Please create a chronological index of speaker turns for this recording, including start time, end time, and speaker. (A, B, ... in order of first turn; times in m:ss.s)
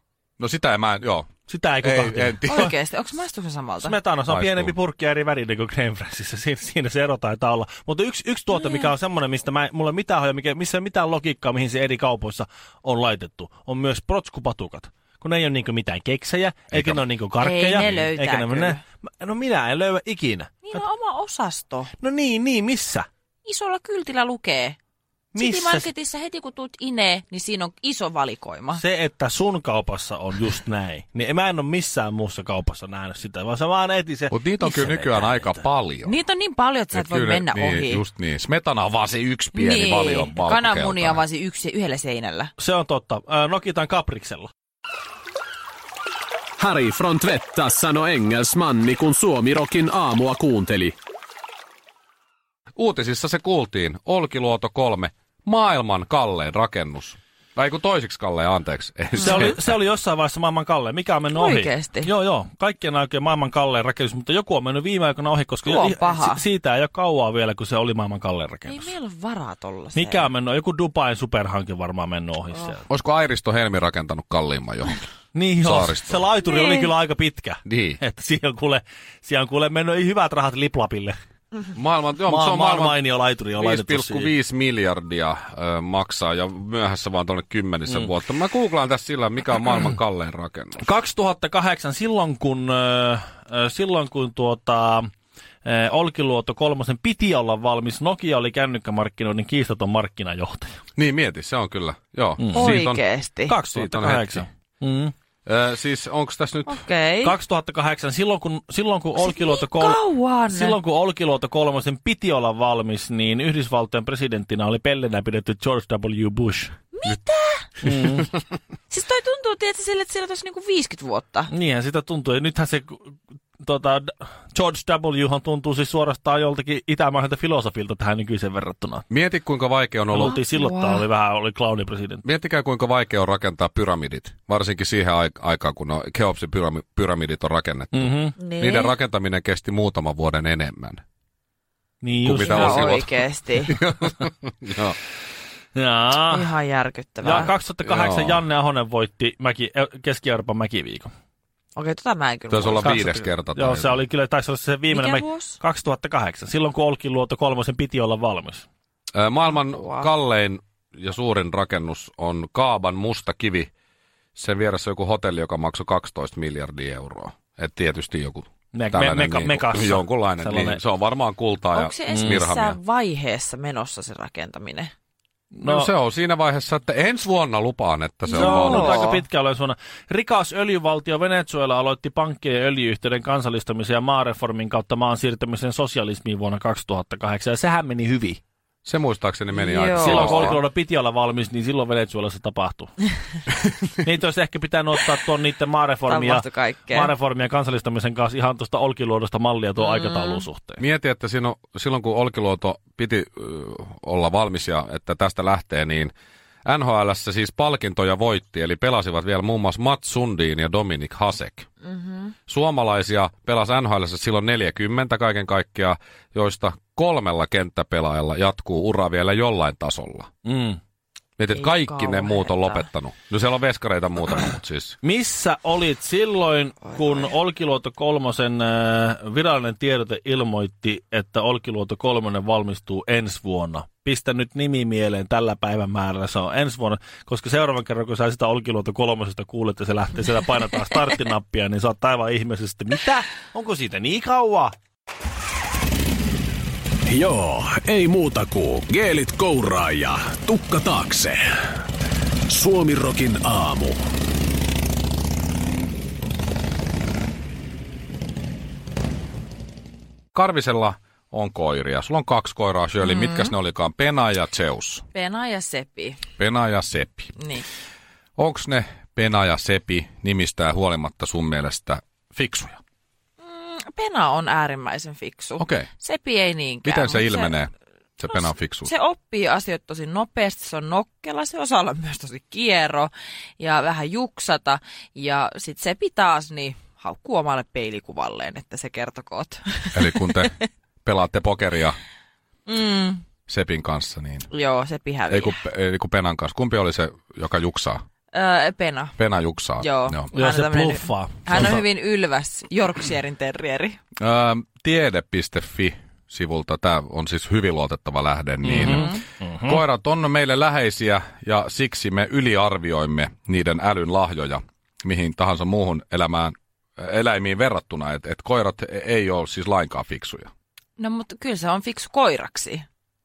0:00.4-0:01.3 A
0:01.5-0:02.7 B
0:01.8-0:02.7 A
0:02.5-0:04.0 C
0:03.8-0:20.8 B
0:04.3-0:04.7 A
0:08.5-0:08.9 C
0:16.7-0:17.0 A
0:17.4-0:18.8 C
0:20.6-0:21.9 C
0:22.0-0:23.1 B
0:23.4-0:24.8 C
0:25.3-0:25.9 B
0:25.4-0:28.8 C
0:28.8-0:34.3 B
0:34.3-0:36.1 A
0:34.6-0:35.5 C
0:36.0-0:38.0 C
0:36.9-0:41.2 A
0:39.5-0:42.5 C
0:42.6-0:44.5 B
0:46.6-0:51.0 D
0:52.8-0:59.7 A
0:59.2-0:59.5 C
0:59.2-1:08.9 B
1:01.3-1:02.1 C
1:05.6-1:06.4 C
1:08.7-1:10.3 C
1:09.9-1:12.8 B
1:12.9-1:15.0 A
1:15.3-1:21.2 B
1:15.6-1:16.3 A
1:16.4-1:16.9 C
1:17.6-1:18.0 A
1:21.7-1:23.0 A
1:22.3-1:24.3 B
1:23.6-1:30.8 A
1:30.8-1:35.1 B
1:35.6-1:40.8 B
1:41.0-1:43.0 A
1:42.4-1:42.8 B
1:42.5-1:43.5 C
1:43.5-1:45.1 B
1:43.6-1:44.4 A
1:45.4-1:46.8 A
1:46.7-1:47.4 C
1:47.2-1:56.7 B
1:49.2-1:50.8 C
1:56.9-1:57.7 C
1:57.8-1:58.3 B
1:58.9-2:01.5 C
2:01.5-2:09.0 B
2:09.1-2:10.4 A
2:10.1-2:12.2 B
2:10.2-2:11.0 C
2:12.2-2:21.0 A
2:17.9-2:18.3 B
2:18.4-2:19.0 C
2:22.0-2:23.0 B
2:22.2-2:23.1 A
2:22.4-2:23.8 C
2:23.6-2:25.0 A
2:25.7-2:26.5 B
2:26.2-2:27.5 C
2:27.2-2:31.1 B
2:27.8-2:28.4 A
2:31.8-2:33.0 C
2:32.5-2:34.0 A
2:32.8-2:38.6 B
2:34.9-2:35.6 C
2:39.1-2:43.7 A
2:39.5-2:40.1 C
2:44.4-2:52.8 A
2:48.7-2:50.8 B
2:51.7-2:54.9 C
2:52.1-2:52.4 B
2:55.5-2:55.9 B
2:55.6-2:59.1 A
2:58.3-2:59.2 C
2:58.3-3:08.4 B
3:08.8-3:10.6 A
3:09.5-3:10.6 C
3:10.0-3:12.9 B
3:14.0-3:20.8 B
3:16.1-3:17.1 C
3:19.8-3:20.4 C
3:20.8-3:26.1 A
3:26.6-3:31.7 A
3:31.8-3:32.3 C
3:32.5-3:40.3 A
3:40.4-3:40.8 B
3:41.4-3:45.0 A
3:41.5-3:42.9 C
3:45.0-4:04.7 B
3:46.9-3:47.3 C
4:07.1-4:11.6 D
4:12.5-4:14.0 D
4:20.3-4:25.0 A
4:23.0-4:23.5 C
4:25.1-4:26.2 C
4:26.4-4:27.3 A
4:27.4-4:27.6 C
4:28.4-4:32.8 A
4:33.4-4:37.6 C
4:35.6-4:35.9 A
4:36.8-4:38.9 A
4:38.3-4:50.6 C
4:49.9-4:52.0 A
4:52.7-4:53.2 C
4:53.5-4:54.5 A
4:54.5-4:55.6 C
4:55.3-4:58.0 A
4:58.3-4:59.2 C
4:59.2-5:00.3 A
4:59.8-5:04.0 C
5:00.3-5:01.8 B
5:04.2-5:20.5 A
5:08.6-5:09.8 B
5:08.7-5:09.2 C
5:21.0-5:22.8 C